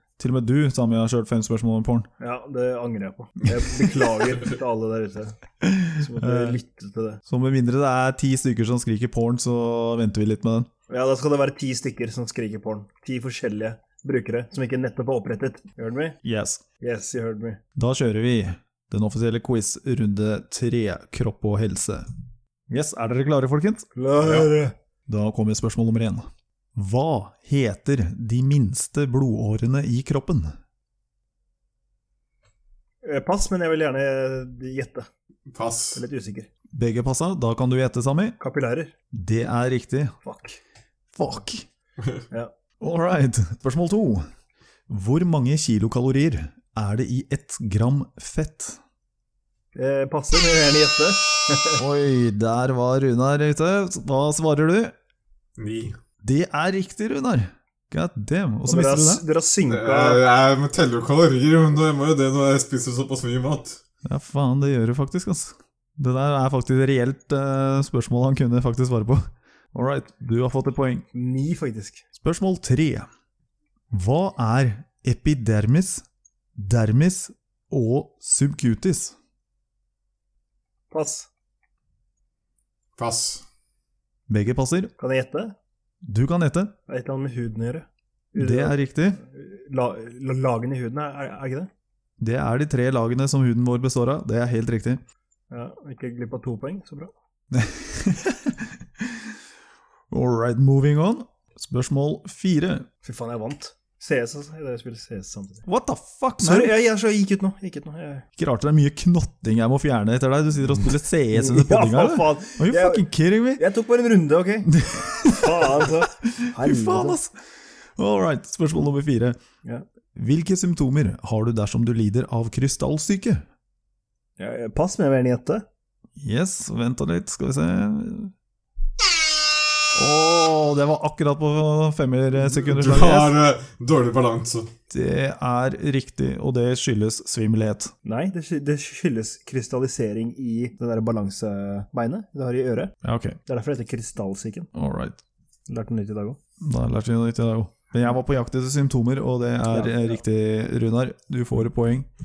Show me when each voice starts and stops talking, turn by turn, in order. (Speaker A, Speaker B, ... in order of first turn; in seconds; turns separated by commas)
Speaker A: 0.2-2.1, Speaker B: 2.2-5.3, Speaker A: 5.6-6.6, Speaker B: 6.0-7.2, Speaker A: 7.3-10.7, Speaker B: 10.9-16.2, Speaker A: 16.2-16.6, Speaker B: 16.8-17.6, Speaker A: 17.8-22.1, Speaker A: 22.7-23.9, Speaker B: 23.9-24.7, Speaker C: 24.2-24.5, Speaker A: 25.1-30.6, Speaker B: 33.0-35.1, Speaker C: 35.5-36.0, Speaker B: 36.0-36.5, Speaker A: 36.7-38.4, Speaker B: 38.4-38.9, Speaker A: 39.1-40.2, Speaker B: 40.2-40.6, Speaker A: 41.1-41.7, Speaker A: 42.8-44.3, Speaker A: 44.9-48.8, Speaker B: 49.8-51.8, Speaker A: 51.8-54.9, Speaker C: 55.6-56.0, Speaker A: 56.2-59.2, Speaker B: 58.7-60.2, Speaker C: 59.7-63.8, Speaker A: 64.1-71.0, Speaker B: 71.1-72.0, Speaker A: 72.2-73.1, Speaker A: 73.9-76.0, Speaker A: 76.6-79.2, Speaker B: 80.9-81.3, Speaker C: 83.0-83.4, Speaker A: 84.3-84.9, Speaker B: 85.0-85.6, Speaker A: 86.0-86.7, Speaker B: 86.9-91.7, Speaker A: 88.4-89.2, Speaker A: 92.2-95.0, Speaker B: 95.5-97.1, Speaker A: 97.5-99.3, Speaker A: 100.1-102.9, Speaker B: 103.0-105.7, Speaker A: 105.7-106.7, Speaker B: 106.4-108.2, Speaker A: 108.4-113.6, Speaker B: 111.3-113.0, Speaker B: 113.6-117.2, Speaker A: 114.7-117.3, Speaker A: 118.0-119.4, Speaker A: 120.2-123.4, Speaker B: 124.4-125.7, Speaker A: 126.2-128.3, Speaker A: 129.9-133.3, Speaker C: 132.5-134.7, Speaker A: 134.9-137.9, Speaker B: 138.1-142.9, Speaker A: 143.0-143.4, Speaker B: 143.5-144.7, Speaker A: 144.7-145.2, Speaker B: 145.7-146.4, Speaker A: 146.6-152.1, Speaker B: 149.7-150.2